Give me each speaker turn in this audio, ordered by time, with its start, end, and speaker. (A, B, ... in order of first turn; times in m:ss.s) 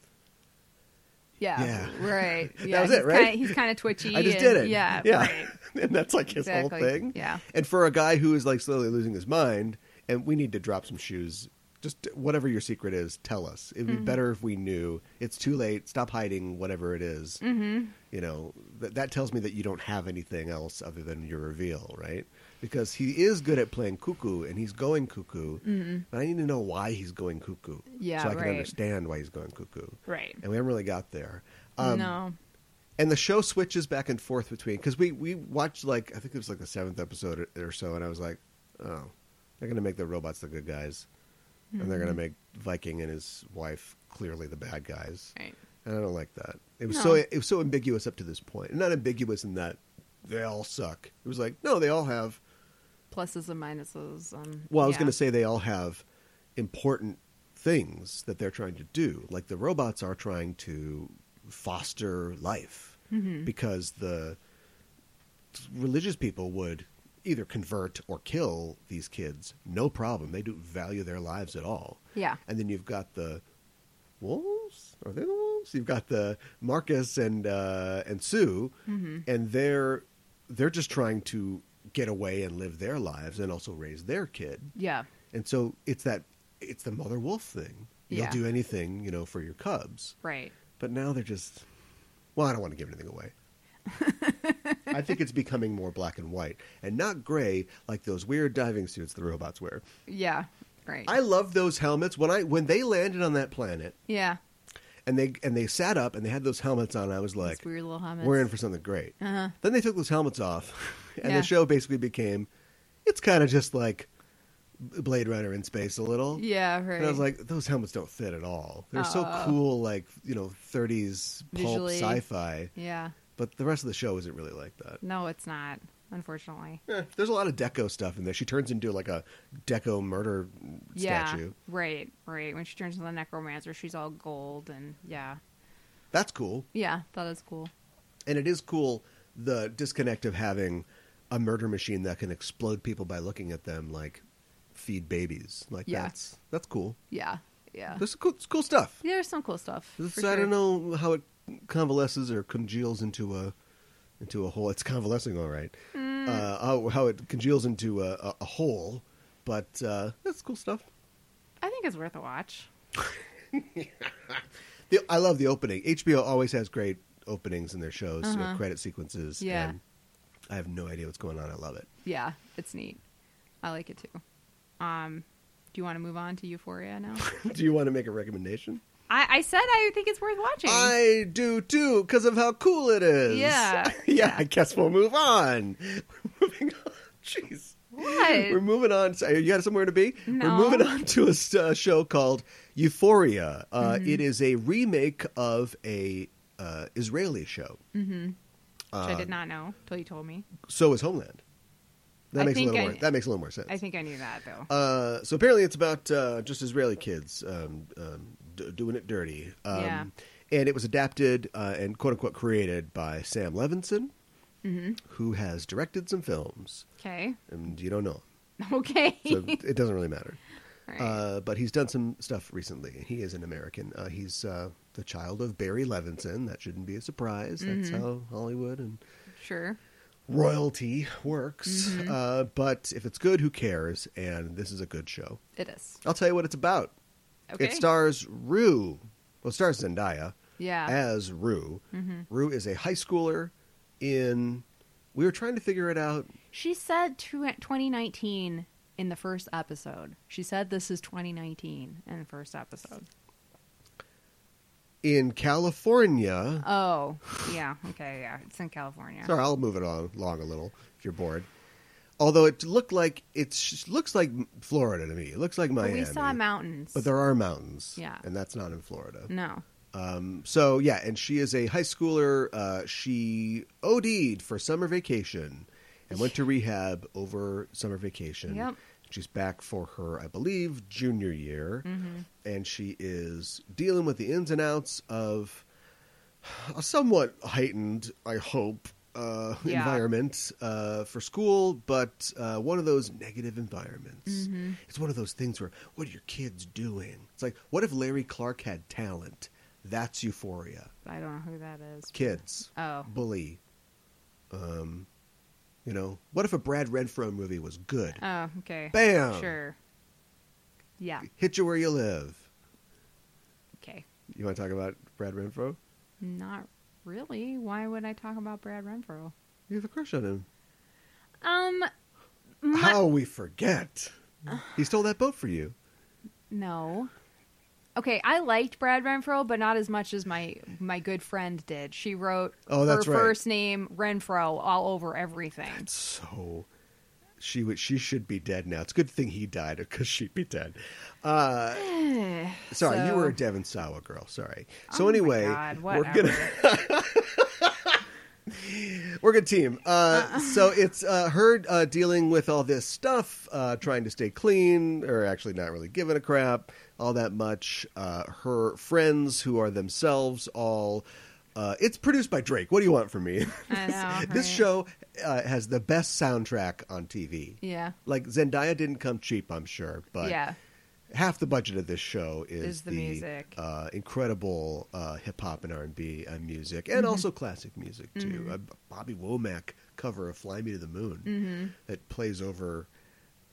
0:01.4-0:05.6 A
0:01.6-0:17.4 B
0:06.4-0:07.4 A
0:13.9-0:14.2 A
0:17.4-0:18.0 A
0:18.0-0:32.2 B
0:25.6-0:26.0 A
0:27.9-0:28.7 A
0:30.1-0:30.4 A
0:31.8-0:32.4 A
0:33.0-0:41.1 B
0:41.7-0:42.2 A
0:41.8-0:52.4 B
0:46.9-0:47.2 A
0:53.1-0:55.2 A
0:54.7-0:56.0 B
0:56.6-1:04.4 B
1:03.1-1:03.5 A
1:05.5-1:13.4 B
1:14.2-1:24.7 B
1:18.9-1:19.2 A
1:24.8-1:25.1 A
1:25.3-1:30.2 B
1:28.1-1:28.4 A
1:30.2-1:30.6 A
1:30.8-1:31.7 B
1:32.4-1:33.3 B
1:33.9-1:34.9 A
1:34.9-1:39.8 B
1:40.1-1:41.1 A
1:41.1-1:44.0 B
1:44.1-1:44.4 A
1:45.0-1:47.6 B
1:47.4-1:48.5 A
1:48.2-1:52.5 B
1:49.2-1:49.6 A
1:51.2-1:51.5 A
1:53.0-1:54.1 B
1:54.8-1:56.4 B
1:56.4-1:57.2 A
1:57.0-2:02.7 B
1:59.0-1:59.6 A
2:01.5-2:02.2 A
2:02.8-2:03.2 A
2:03.4-2:05.0 B
2:05.0-2:06.8 A
2:06.9-2:11.6 B
2:11.0-2:15.4 A
2:16.1-2:16.7 B
2:16.7-2:17.7 A
2:18.3-2:27.0 B
2:25.9-2:26.1 A
2:27.1-2:28.0 A
2:28.0-2:29.0 B
2:29.0-2:30.5 A
2:30.0-2:33.5 B
2:34.2-2:40.9 B
2:35.9-2:36.5 A
2:41.6-2:42.7 A
2:43.5-2:49.8 B
2:48.2-2:48.6 A
2:49.4-2:49.8 A
2:50.5-2:51.9 B
2:52.0-2:53.0 A
2:53.6-2:54.2 A
2:54.8-2:57.3 A
2:57.2-2:58.8 B
2:59.1-3:01.0 A
3:00.6-3:17.8 B
3:03.3-3:04.4 A
3:08.0-3:08.6 A
3:10.3-3:11.0 A
3:13.8-3:14.2 A
3:17.9-3:18.4 A
3:18.9-3:19.4 B
3:19.0-3:20.5 A
3:20.6-3:21.4 B
3:22.3-3:23.8 B
3:22.4-3:23.1 A
3:23.7-3:24.7 A
3:24.7-3:34.1 B
3:29.7-3:30.1 A
3:34.6-3:35.0 A
3:35.0-3:36.9 B
3:37.0-3:37.4 A
3:37.5-3:38.2 B
3:38.6-3:39.6 A
3:39.3-3:40.4 B
3:40.9-3:41.2 A
3:41.0-3:49.0 B
3:47.6-3:48.1 A
3:49.4-3:49.8 A
3:50.3-3:55.4 B
3:51.7-3:52.2 A
3:55.6-3:56.0 A
3:56.0-3:56.9 B
3:57.5-3:57.8 A
3:57.6-4:00.4 B
4:00.6-4:01.0 A
4:00.9-4:06.3 B
4:01.9-4:02.3 A
4:06.5-4:13.1 A
4:15.0-4:16.7 B
4:16.6-4:19.3 A
4:19.2-4:21.5 B
4:22.2-4:26.4 B
4:25.8-4:27.1 A
4:26.9-4:29.3 B
4:28.0-4:28.2 A
4:29.3-4:29.6 A
4:29.9-4:41.9 B
4:38.5-4:38.8 A
4:41.8-4:42.3 A
4:42.4-4:45.6 B
4:46.4-5:00.9 B
4:49.6-4:50.0 A
4:54.3-4:54.8 A
5:01.0-5:03.1 A
5:02.1-5:03.6 B
5:04.5-5:05.1 B
5:05.8-5:08.2 B
5:08.2-5:09.8 A
5:08.9-5:09.6 B
5:11.0-5:11.3 A
5:11.3-5:12.5 B
5:14.3-5:15.8 B
5:16.2-5:19.3 A
5:19.7-5:20.5 B
5:21.4-5:21.9 A
5:22.6-5:23.0 A
5:22.7-5:25.8 B
5:26.5-5:27.1 A
5:28.0-5:35.9 A
5:32.7-5:33.4 B
5:35.8-5:36.7 B
5:37.4-5:41.9 B
5:41.7-5:43.4 A
5:42.7-6:10.4 B
5:44.9-5:46.6 A
5:50.1-5:50.6 A
6:03.7-6:04.6 A
6:07.6-6:08.0 A
6:10.2-6:10.6 A
6:11.1-6:22.9 B
6:12.6-6:13.6 A
6:17.0-6:17.2 A
6:18.2-6:18.6 A
6:21.3-6:21.7 A